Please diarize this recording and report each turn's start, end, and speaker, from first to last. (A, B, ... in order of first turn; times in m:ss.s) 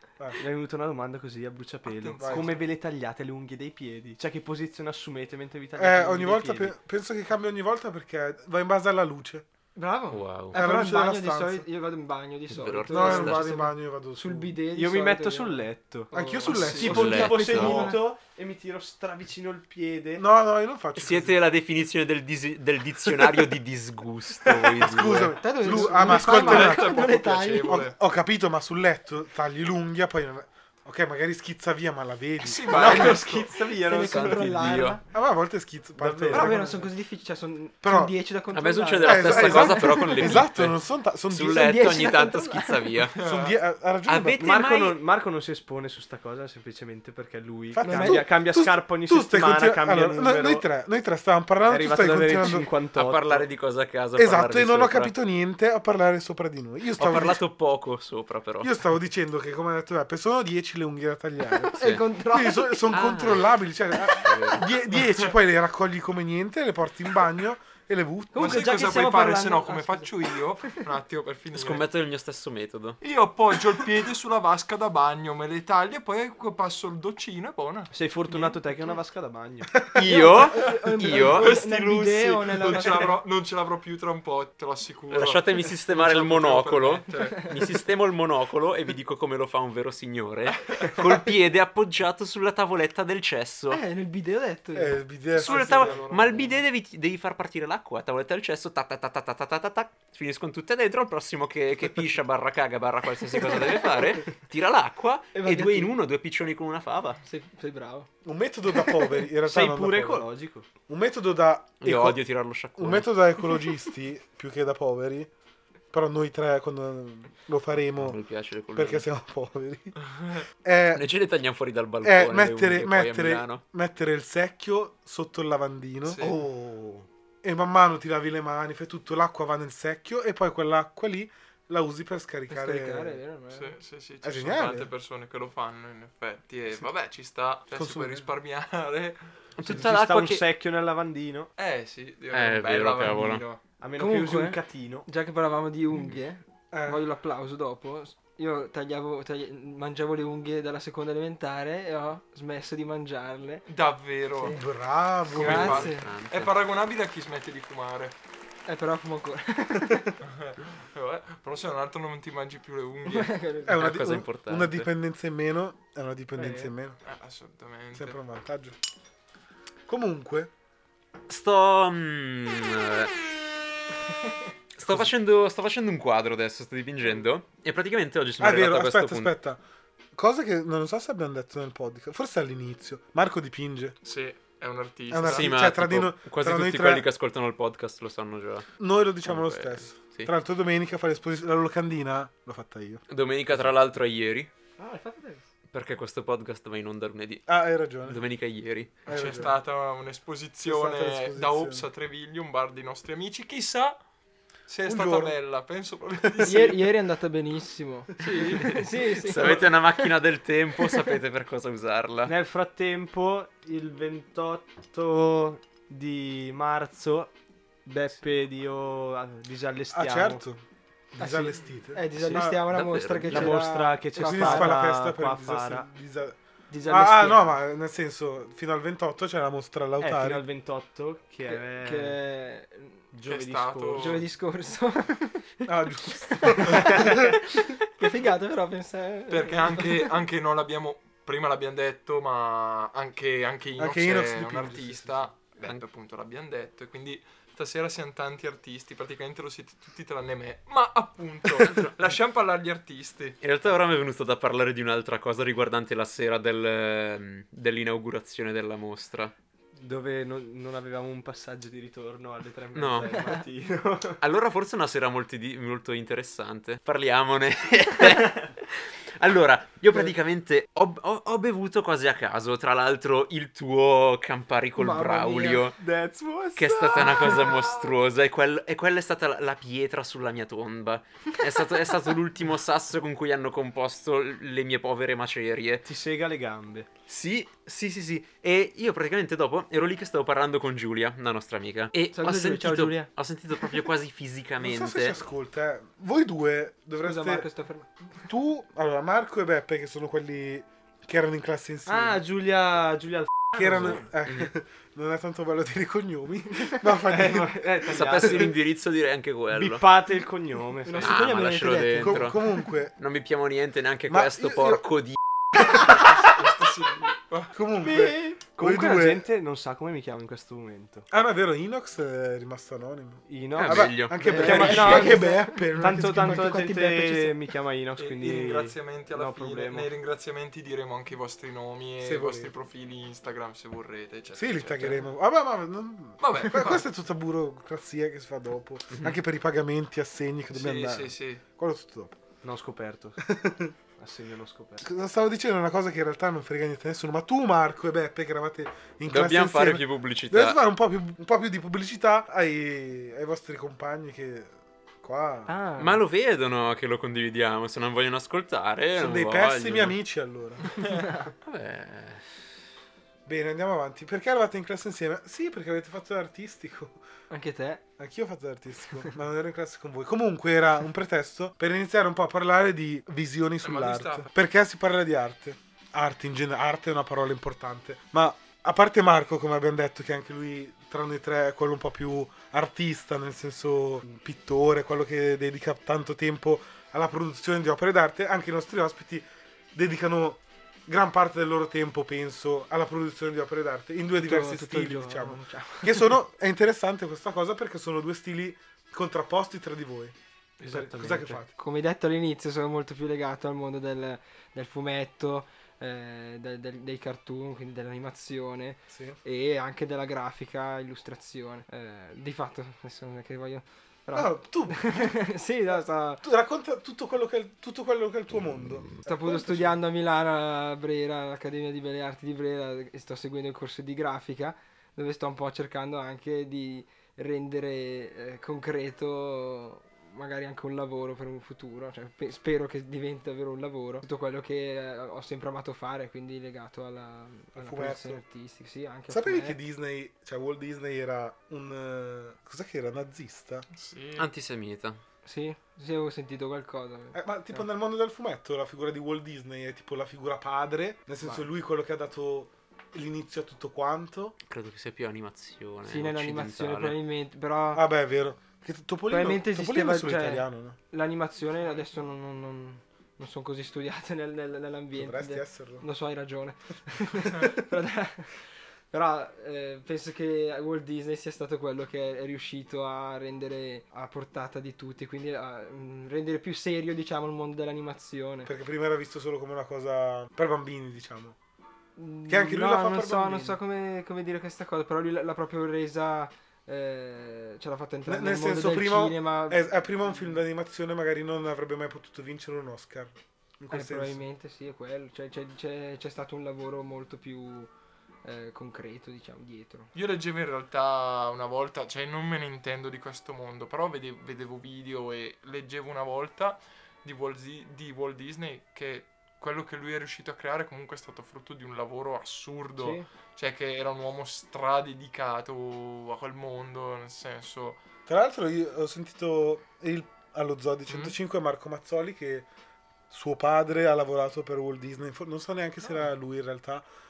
0:00.4-0:06.7 A
0:01.8-0:02.6 B
0:02.2-0:02.5 C
0:05.8-0:09.5 C
0:09.8-0:18.1 D
0:10.1-0:10.6 E
0:10.5-0:11.7 C
0:12.5-0:13.5 E
0:12.9-0:14.6 C
0:14.7-0:20.2 A
0:16.1-0:17.3 C
0:16.5-0:17.2 B
0:16.8-0:17.9 E
0:20.2-0:21.4 C
0:21.0-0:25.4 E
0:24.4-0:33.4 C
0:25.3-0:27.9 D
0:25.7-0:28.0 B
0:32.4-0:33.8 B
0:32.8-0:35.1 D
0:32.9-0:33.4 A
0:33.9-0:35.0 E
0:34.0-0:34.4 A
0:35.1-0:36.8 C
0:36.0-0:36.8 A
0:36.3-0:40.5 D
0:37.8-0:38.1 C
0:38.5-0:40.8 E
0:39.0-0:42.1 C
0:41.3-0:43.2 E
0:41.6-0:43.0 D
0:43.2-0:43.6 B
0:43.2-0:44.5 C
0:44.1-0:45.0 E
0:44.4-0:50.7 A
0:47.7-0:52.7 C
0:47.8-0:48.3 D
0:51.7-0:53.5 A
0:52.9-0:55.1 E
0:54.2-0:57.4 C
0:57.0-0:58.7 E
0:58.6-1:08.7 C
1:01.6-1:02.9 D
1:02.9-1:03.6 E
1:04.2-1:04.7 E
1:08.3-1:10.1 D
1:08.4-1:11.8 B
1:11.5-1:13.0 E
1:13.0-1:18.6 B
1:17.9-1:19.8 A
1:19.9-1:21.6 E
1:20.0-1:23.2 D
1:21.2-1:27.6 B
1:25.1-1:33.8 E
1:33.7-1:35.1 D
1:34.8-1:35.9 C
1:35.4-1:36.5 B
1:35.4-1:47.2 E
1:47.2-1:48.1 D
1:48.2-1:50.3 C
1:48.8-1:49.1 D
1:49.4-1:50.7 A
1:50.9-1:55.3 C
1:51.8-1:53.2 E
1:55.9-1:58.2 C
1:58.0-1:59.1 E
1:58.7-2:00.0 C
2:00.1-2:00.4 B
2:00.6-2:01.1 C
2:00.9-2:03.6 E
2:02.0-2:06.9 C
2:06.0-2:06.4 B
2:07.4-2:13.2 C
2:12.5-2:13.8 D
2:13.5-2:19.2 B
2:14.2-2:14.9 C
2:17.7-2:18.3 C
2:19.6-2:20.4 E
2:19.6-2:21.5 A
2:21.6-2:23.6 B
2:22.3-2:23.4 E
2:23.8-2:25.1 A
2:24.0-2:33.6 D
2:26.7-2:27.0 C
2:33.7-2:34.6 B
2:34.4-2:34.6 D
2:34.5-2:35.9 C
2:35.3-2:38.2 B
2:35.3-2:36.1 D
2:35.4-2:36.5 E
2:38.7-2:40.2 D
2:40.2-2:43.3 B
2:43.1-2:43.8 D
2:43.6-2:47.0 C
2:43.8-2:44.9 E
2:47.0-2:48.2 B
2:47.9-2:48.8 C
2:49.9-2:50.5 C
2:51.3-2:53.1 E
2:54.8-2:59.3 E
2:58.4-2:59.6 C
3:00.2-3:04.0 C
3:04.0-3:05.5 B
3:05.1-3:07.1 C
3:05.2-3:08.7 E
3:08.8-3:13.6 C
3:09.2-3:10.3 E
3:13.1-3:14.5 E
3:14.8-3:15.4 D
3:15.7-3:17.5 E
3:17.5-3:18.2 C
3:18.0-3:19.1 E
3:19.1-3:19.6 C
3:19.1-3:24.0 B
3:20.6-3:21.9 C
3:24.7-3:26.9 B
3:24.8-3:25.4 C
3:26.4-3:26.6 C
3:26.4-3:30.1 D
3:28.2-3:28.8 B
3:29.1-3:32.3 E
3:32.3-3:37.3 A
3:37.8-3:40.4 A
3:39.9-3:40.6 C
3:41.2-3:42.7 C
3:41.2-3:44.9 D
3:42.7-3:43.6 E
3:43.3-3:45.9 A
3:43.3-3:50.4 C
3:46.7-3:47.6 D
3:50.0-3:52.2 A
3:51.5-3:53.1 D
3:53.1-3:54.3 A
3:53.3-3:54.2 B
3:54.0-3:55.6 D
3:55.7-3:57.4 C
3:56.2-4:00.1 D
3:59.3-4:13.4 B
4:03.8-4:05.3 C
4:13.4-4:19.3 E
4:19.8-4:24.2 A
4:22.8-4:23.3 E
4:24.2-4:35.8 E
4:34.8-4:35.8 D
4:35.8-4:37.6 A
4:36.6-4:45.9 E
4:45.8-4:46.9 A
4:47.1-4:55.2 E
4:52.1-4:53.1 D
4:54.6-4:57.5 C
4:57.0-4:58.2 D
4:58.3-5:02.2 C
5:01.9-5:04.0 A
5:03.6-5:08.5 C
5:04.0-5:04.5 E
5:07.0-5:08.6 A
5:07.9-5:09.8 E
5:09.5-5:11.2 A
5:10.8-5:12.6 D
5:11.0-5:12.4 E
5:12.0-5:12.9 C
5:13.0-5:15.2 E
5:14.1-5:14.9 C
5:15.5-5:16.0 C
5:15.9-5:17.5 B
5:17.5-5:19.3 C
5:17.8-5:21.1 A
5:17.9-5:18.4 D
5:21.1-5:26.6 C
5:23.3-5:29.9 A
5:23.6-5:25.1 E
5:24.2-5:27.4 D
5:28.0-5:35.1 B
5:32.0-5:32.5 C
5:34.3-5:42.2 C
5:36.2-5:36.9 B
5:40.5-5:41.4 B
5:42.4-5:43.2 A
5:43.2-5:43.7 C
5:44.0-5:44.9 A
5:44.8-5:55.6 C
5:49.1-5:50.6 E
5:55.5-5:56.0 D
5:55.8-6:00.0 E
5:59.0-6:00.8 C
6:00.8-6:01.3 D
6:01.4-6:02.5 E
6:03.3-6:07.0 C
6:07.3-6:07.8 D
6:08.0-6:41.5 C
6:13.6-6:14.3 B
6:34.2-6:36.2 D
6:40.6-6:41.4 A
6:41.5-6:56.3 D
6:48.9-6:49.2 C
6:54.1-6:55.2 C
6:56.2-6:59.8 C
6:59.0-7:19.6 D
7:17.6-7:18.2 C
7:19.1-7:23.7 C
7:23.7-7:24.3 B
7:24.2-7:25.0 E
7:25.2-7:27.6 D
7:27.1-7:34.4 C
7:34.5-7:37.0 E
7:35.8-7:37.8 D
7:37.7-7:40.8 C
7:39.1-7:58.5 D
7:44.9-7:45.9 C
7:58.4-8:01.4 C
8:02.0-8:10.2 D
8:02.3-8:03.6 C
8:08.1-8:14.2 C
8:13.7-8:17.7 D
8:18.2-8:19.9 D
8:19.9-8:37.8 B
8:32.8-8:33.1 D
8:38.1-8:42.5 C
8:40.9-8:41.2 B
8:43.1-8:46.8 C